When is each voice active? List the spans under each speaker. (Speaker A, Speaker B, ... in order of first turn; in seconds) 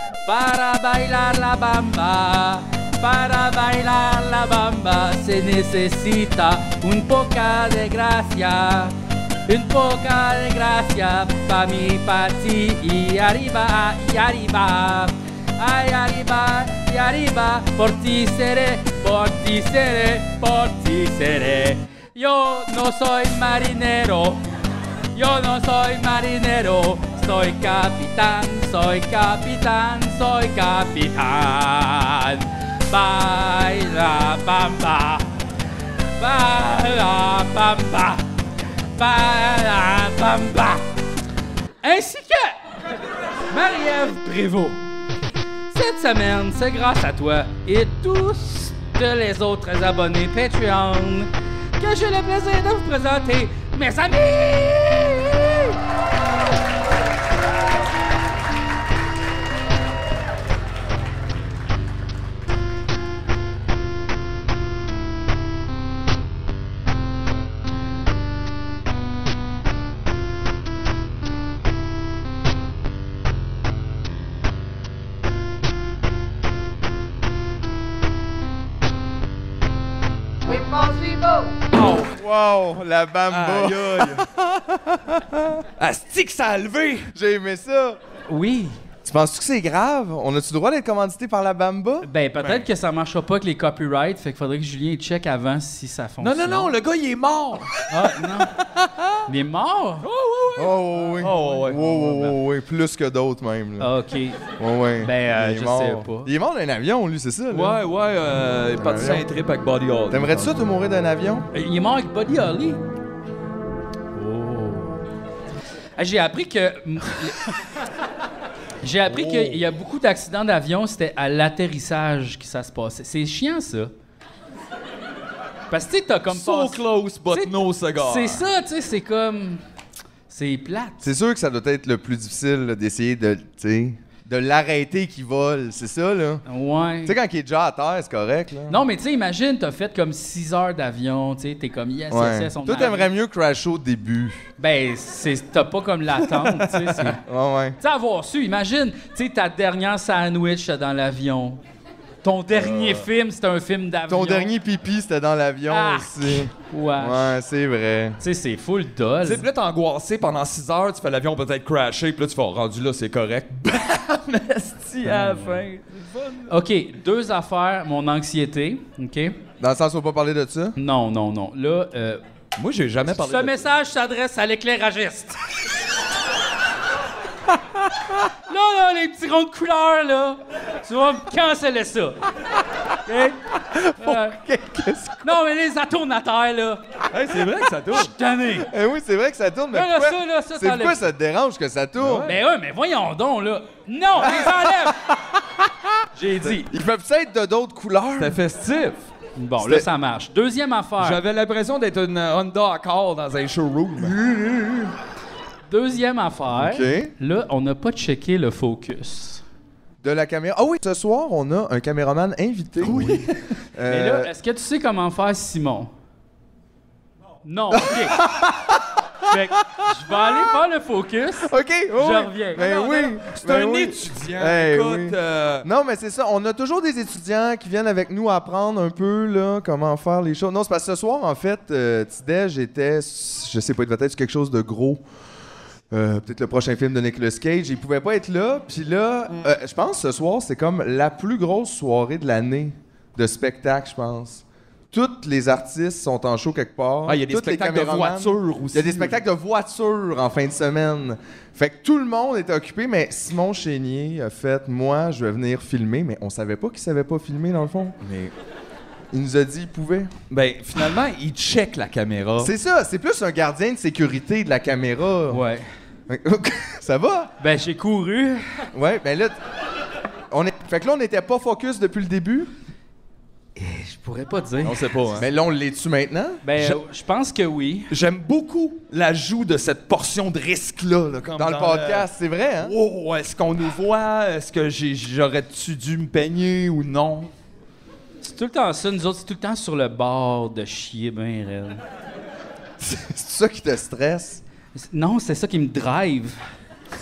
Speaker A: 0.2-8.9, 9.5-24.4, 25.1-35.4, 36.2-38.2, 39.0-40.8, 41.8-42.6, 43.5-44.8, 45.7-55.8, 88.3-88.8, 92.0-96.7, 97.9-98.5, 99.3-100.0, 103.8-104.4, 105.0-106.3, 111.5-112.8, 114.1-115.0, 116.0-117.5, 118.8-123.9, 125.7-129.6, 130.3-131.1, 136.4-137.2, 138.7-143.1, 144.6-147.2, 147.8-151.6, 152.2-154.5, 155.7-157.4, 158.2-159.4, 165.0-165.6, 166.5-169.3, 170.8-172.2, 173.0-175.4, 178.4-182.2, 183.0-183.4, 184.0-184.4, 185.2-186.8, 187.9-188.7, 189.7-191.0, 192.2-195.1, 196.1-196.7, 199.3-201.2, 205.7-209.4, 213.9-215.9, 217.4-218.2, 219.3-222.9, 265.3-265.6, 267.4-268.6, 273.6-274.8, 276.4-277.9, 288.2-291.8, 294.7-296.4
Speaker B: 81.8-85.6, 87.1-88.0, 89.0-92.1, 100.5-103.9, 104.6-107.8, 108.8-109.3, 110.1-111.5, 131.0-136.4, 137.0-138.8, 142.1-144.5, 147.0-147.8, 154.1-158.2, 169.6-170.8, 183.7-185.4, 188.5-192.3, 194.2-195.9, 196.4-198.4, 199.6-199.9, 204.0-204.9, 206.5-207.1, 210.0-214.3, 217.7-220.3, 221.4-235.0, 235.9-258.0, 259.1-260.1, 262.4-265.4, 266.1-267.3, 268.7-269.4, 270.3-272.5, 275.2-276.4, 281.4-282.7, 292.8-294.4
Speaker C: 83.3-84.3, 85.8-87.1, 96.2-97.8, 98.8-99.1, 100.0-102.3, 107.5-110.5, 119.1-119.6, 126.3-128.4, 152.5-153.1, 159.2-166.5, 172.6-173.6, 187.1-188.1, 192.0-192.4, 198.2-199.1, 201.0-204.1, 212.8-213.2, 222.7-225.7, 247.1-249.2, 258.0-258.3, 260.3-262.5, 274.6-275.2, 277.9-282.1, 282.6-287.3